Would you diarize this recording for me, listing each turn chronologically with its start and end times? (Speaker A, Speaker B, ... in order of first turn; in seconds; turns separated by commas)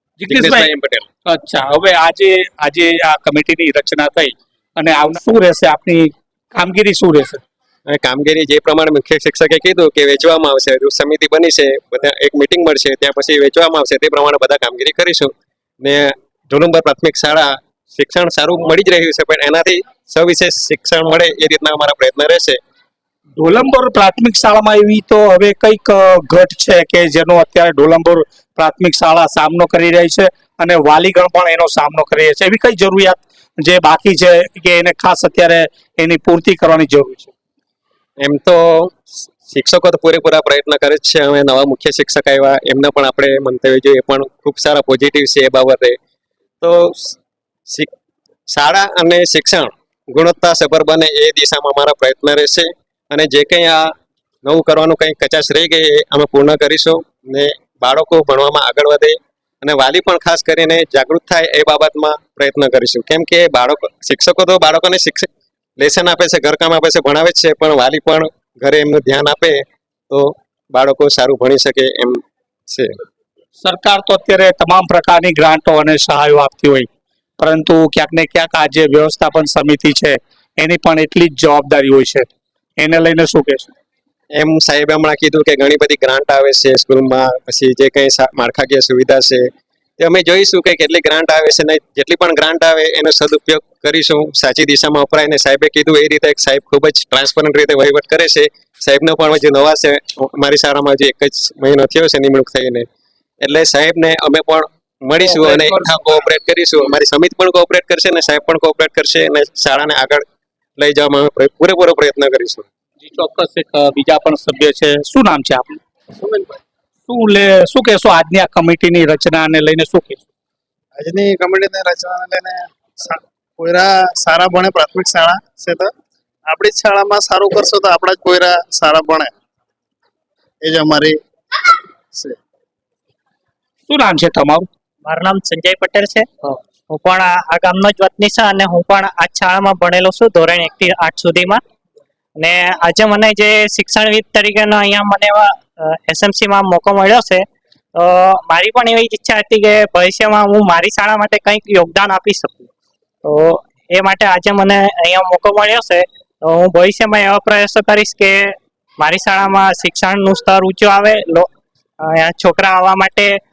Speaker A: 0.2-0.7, Speaker B: 0.3-1.1, Speaker A: 1.2-7.4, Speaker B: 7.9-22.6, Speaker A: 23.4-37.3, Speaker B: 38.2-46.0, Speaker B: 46.6-47.2, Speaker B: 48.5-73.0, Speaker A: 73.6-76.9, Speaker A: 77.4-83.7, Speaker B: 84.3-89.5, Speaker B: 90.0-102.9, Speaker B: 103.4-110.2, Speaker A: 105.4-105.8, Speaker B: 110.8-112.7, Speaker A: 113.0-115.8, Speaker C: 116.2-116.6, Speaker A: 117.1-120.2, Speaker C: 121.0-125.9, Speaker C: 126.5-129.3, Speaker C: 130.6-131.2, Speaker A: 133.9-134.7, Speaker D: 135.0-136.3, Speaker D: 136.9-141.6, Speaker D: 142.4-147.4, Speaker D: 147.9-152.7, Speaker D: 153.2-161.5, Speaker D: 162.0-163.3